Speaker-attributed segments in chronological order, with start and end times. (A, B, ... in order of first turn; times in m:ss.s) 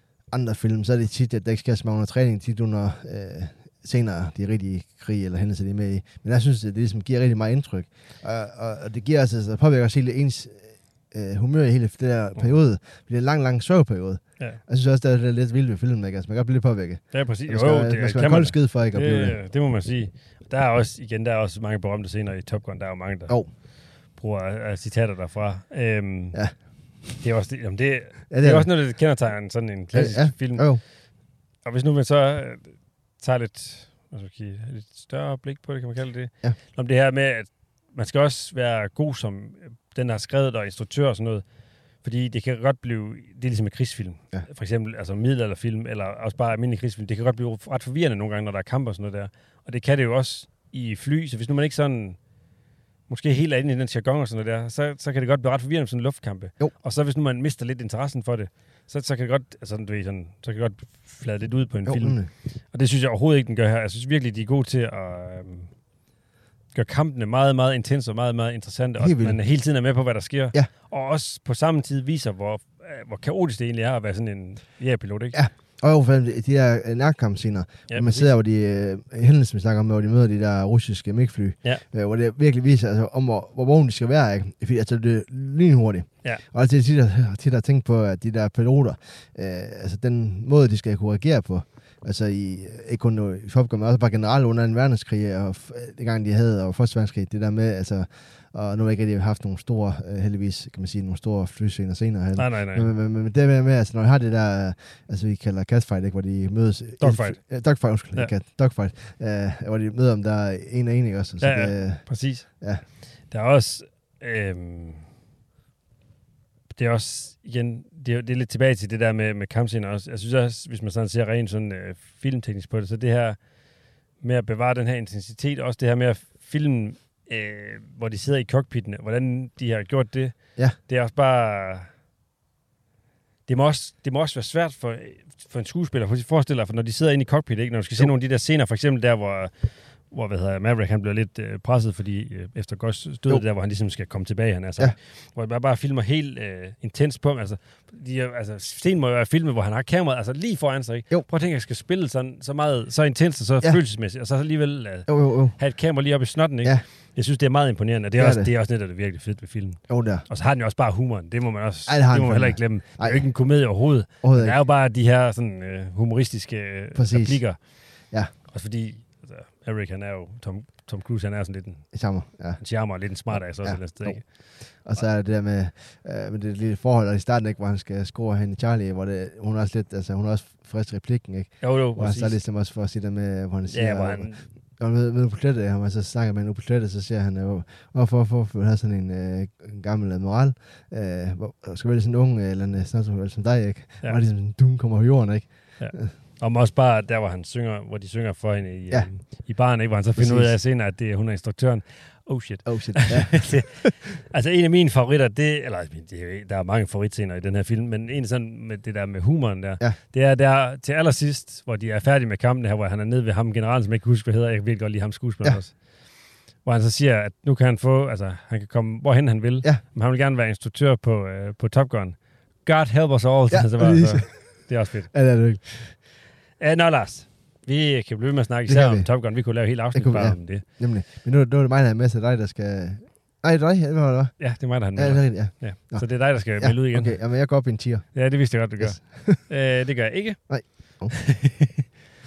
0:00.3-0:19.4 A
0:17.1-0:31.0 B
0:28.3-0:28.7 A
0:29.9-0:30.8 A
0:31.6-0:52.2 B
0:53.1-1:05.7 B
1:01.8-1:02.3 A
1:06.7-1:15.4 B
1:09.0-1:09.4 A
1:15.3-1:52.8 A
1:17.9-1:18.3 B
1:42.3-1:42.9 B
1:47.0-1:48.3 B
1:51.4-1:55.0 B
1:56.7-2:11.9 B
2:13.4-2:52.0 B
2:35.1-2:35.7 A
2:38.2-2:38.5 A
2:39.9-2:40.2 A
2:41.9-2:43.2 A
2:44.2-2:44.6 A
2:46.9-2:48.3 A
2:51.9-3:16.1 A
2:52.6-2:54.8 B
3:01.6-3:02.4 B
3:03.7-3:04.5 B
3:15.8-3:45.1 B
3:20.1-3:20.6 A
3:22.6-3:23.9 A
3:43.5-3:46.0 A
3:46.6-3:50.6 B
3:48.6-3:59.4 A
3:54.4-3:57.5 B
3:58.1-4:01.8 B
4:00.5-4:01.2 A